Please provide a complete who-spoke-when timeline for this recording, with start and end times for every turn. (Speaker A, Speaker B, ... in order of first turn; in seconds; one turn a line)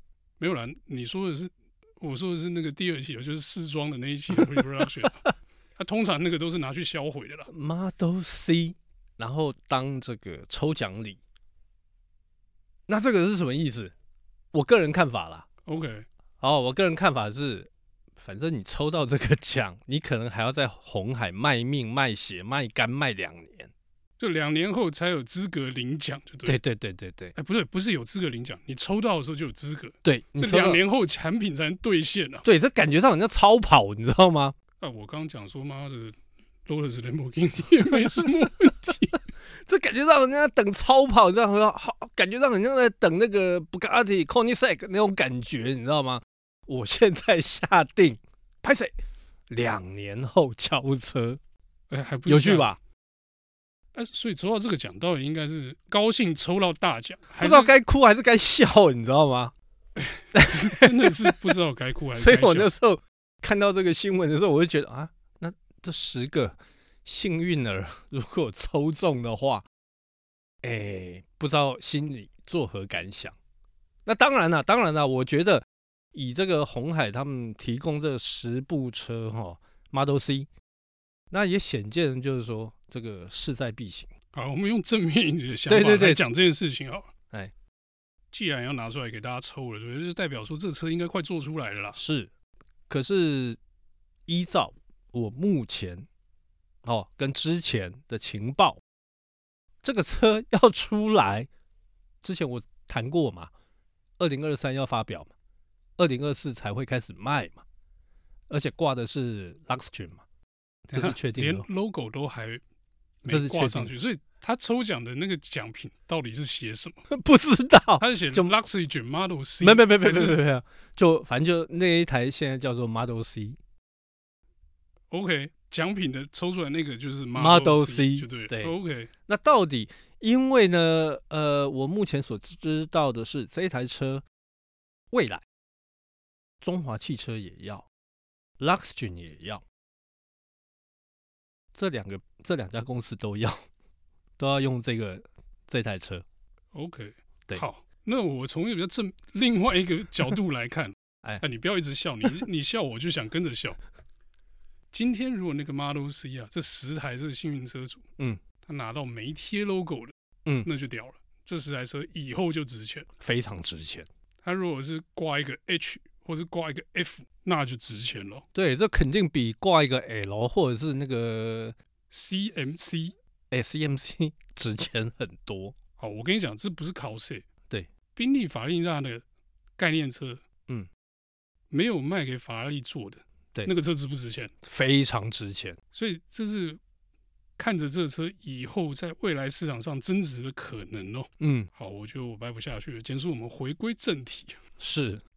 Speaker A: 0.4-5.2
Speaker A: 5.8-7.5
Speaker B: 7.5-11.2
Speaker B: 12.9-13.9
Speaker B: 14.5-15.5
Speaker A: 15.6-16.1
Speaker B: 16.4-23.7
Speaker A: 24.2-26.6
Speaker B: 26.4-27.3
Speaker A: 27.3-32.5
Speaker B: 30.0-30.8
Speaker B: 32.4-34.5
Speaker A: 34.8-39.2
Speaker B: 37.9-38.3
Speaker B: 39.5-48.9
Speaker B: 49.5-51.4
Speaker A: 51.9-52.7
Speaker B: 52.2-52.8
Speaker A: 53.9-57.7
Speaker B: 57.4-59.5
Speaker A: 60.0-62.7
Speaker B: 60.3-61.5
Speaker B: 62.1-69.7
Speaker B: 70.6-73.3
Speaker B: 74.0-80.5
Speaker B: 81.3-84.1
Speaker A: 84.3-87.1
Speaker B: 85.7-86.3
Speaker A: 88.3-92.0
Speaker B: 91.9-92.3
Speaker B: 92.9-93.6
Speaker B: 94.3-96.1
Speaker B: 96.8-98.8
Speaker B: 99.8-101.5
Speaker B: 102.2-103.5
Speaker B: 104.2-105.3
Speaker B: 106.0-107.6
Speaker B: 108.5-110.2
Speaker B: 110.9-111.7
Speaker A: 110.9-112.6
Speaker A: 113.2-117.0
Speaker B: 113.3-113.9
Speaker B: 117.1-118.5
Speaker A: 118.0-120.4
Speaker B: 119.6-123.6
Speaker A: 125.1-129.1
Speaker B: 127.3-128.8
Speaker B: 129.3-134.2
Speaker B: 135.1-135.4
Speaker B: 136.6-137.9
Speaker B: 138.6-139.6
Speaker B: 141.7-143.6
Speaker B: 144.4-146.2
Speaker A: 146.7-153.8
Speaker A: 154.9-158.0
Speaker A: 158.6-163.1
Speaker B: 163.2-164.1
Speaker A: 164.4-168.4
Speaker B: 168.5-171.7
Speaker A: 172.1-173.2
Speaker B: 173.5-175.7
Speaker A: 176.0-177.4
Speaker A: 178.1-179.2
Speaker A: 179.8-180.4
Speaker A: 181.7-184.5
Speaker B: 184.6-185.8
Speaker A: 185.9-186.8
Speaker A: 187.6-194.6
Speaker B: 191.4-191.7
Speaker B: 194.8-195.2